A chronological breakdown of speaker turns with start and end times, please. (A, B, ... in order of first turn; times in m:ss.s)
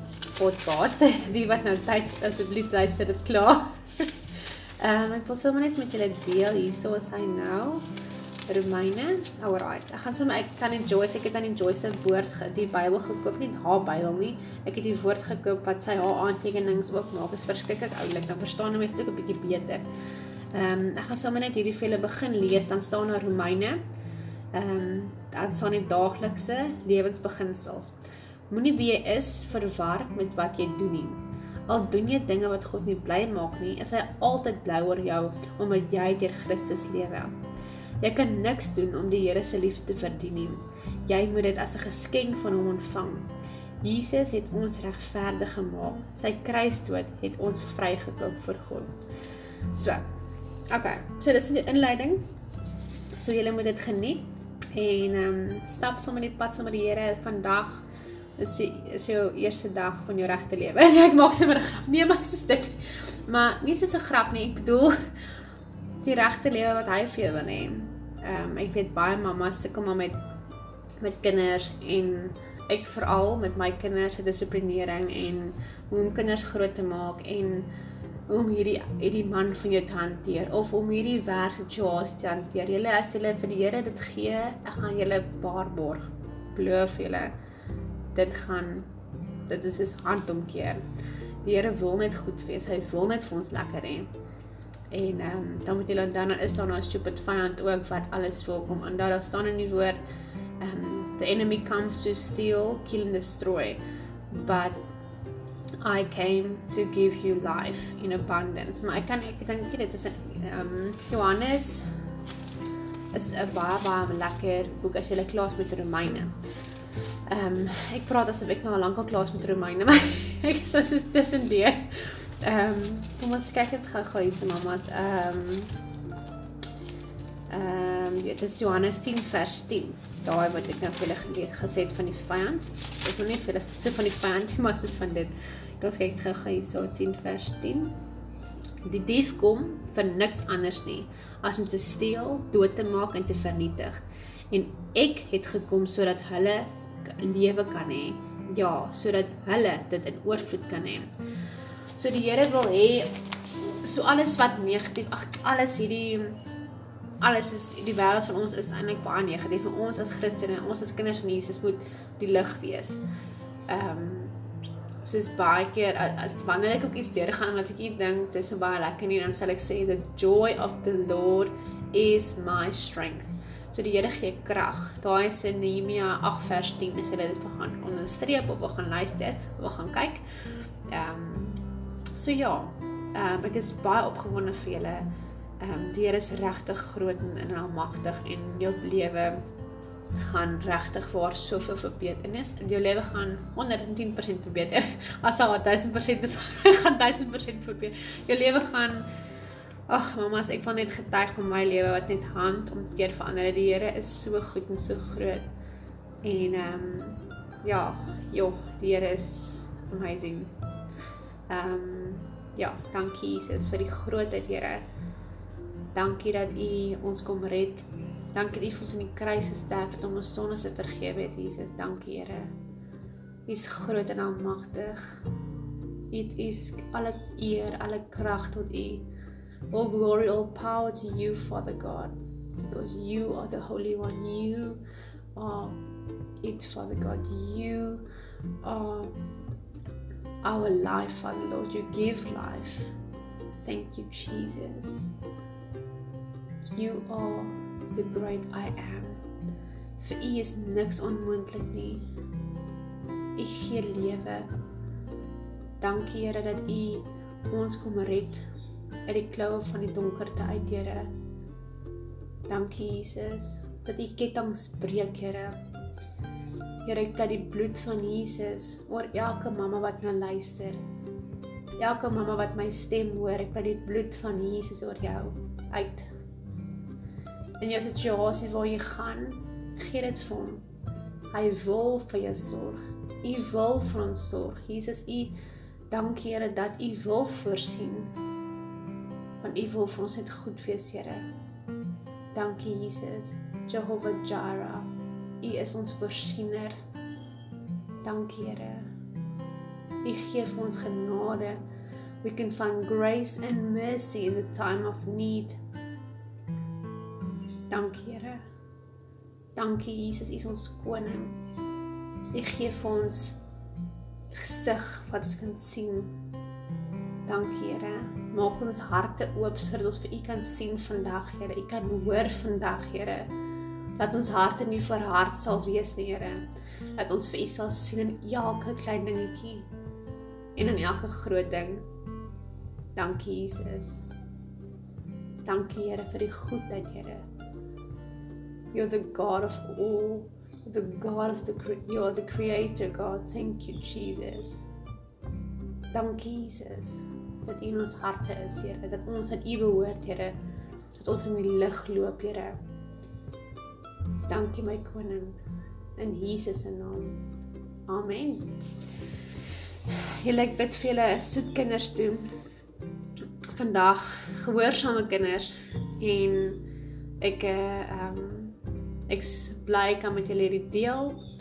0:00.4-0:04.1 A
0:04.8-0:07.8 A
0:08.5-0:19.8 A
0:20.5-0:23.8 A
0:24.5-0:28.0 A
0:28.5-0:37.3 A
0:38.0-0:43.3 A
0:43.8-0:49.0 A
0:49.7-0:50.0 A
0:50.7-0:52.2 A
0:53.2-0:57.8 A
0:58.4-1:05.1 A
1:06.0-1:10.2 A
1:11.0-1:17.7 A
1:18.3-1:27.4 A
1:28.1-1:28.9 A
1:29.5-1:30.8 A
1:31.4-1:34.1 A
1:34.9-1:40.0 A
1:40.6-1:44.8 A
1:45.8-1:51.9 A
1:53.1-1:56.4 A
1:57.3-2:05.8 A
2:07.5-2:17.9 A
2:18.8-2:31.1 A
2:32.0-2:33.1 A
2:33.8-2:36.4 A
2:37.2-2:43.0 A
2:43.7-2:44.4 A
2:45.0-3:00.2 A
3:00.9-3:05.1 A
3:05.6-3:09.4 A
3:10.2-3:19.1 A
3:19.9-3:25.5 A
3:26.2-3:30.5 A
3:31.5-3:34.9 A
3:35.9-3:42.5 A
3:43.5-3:45.0 A
3:46.1-3:49.1 A
3:49.7-3:54.8 A
3:55.4-3:55.8 A
3:56.4-3:58.0 A
3:58.6-3:59.2 A
4:00.4-4:02.9 A
4:03.6-4:05.0 A
4:06.7-4:09.2 A
4:10.0-4:12.1 A
4:13.4-4:14.5 A
4:15.8-4:18.4 A
4:19.1-4:21.1 A
4:22.5-4:25.6 A
4:26.8-4:30.8 A
4:31.8-4:36.1 A
4:37.6-4:40.6 A
4:41.3-4:45.4 A
4:45.9-4:48.1 A
4:49.4-4:51.3 A
4:52.3-4:54.9 A
4:55.4-4:56.8 A
4:58.0-4:58.9 A
5:00.0-5:01.6 A
5:02.2-5:05.6 A
5:07.7-5:08.4 A
5:09.6-5:11.4 A
5:12.3-5:13.4 A
5:14.3-5:16.2 A
5:17.3-5:23.3 A
5:24.0-5:26.4 A
5:27.0-5:29.7 A
5:30.6-5:31.9 A
5:33.0-5:34.0 A
5:35.4-5:37.3 A
5:38.7-5:44.6 A
5:45.9-5:50.4 A
5:51.0-5:52.6 A
5:54.3-5:55.4 A
5:56.0-5:57.2 A
5:57.9-5:58.5 A
5:59.9-6:02.3 A
6:03.5-6:06.6 A
6:07.2-6:08.6 A
6:09.1-6:11.2 A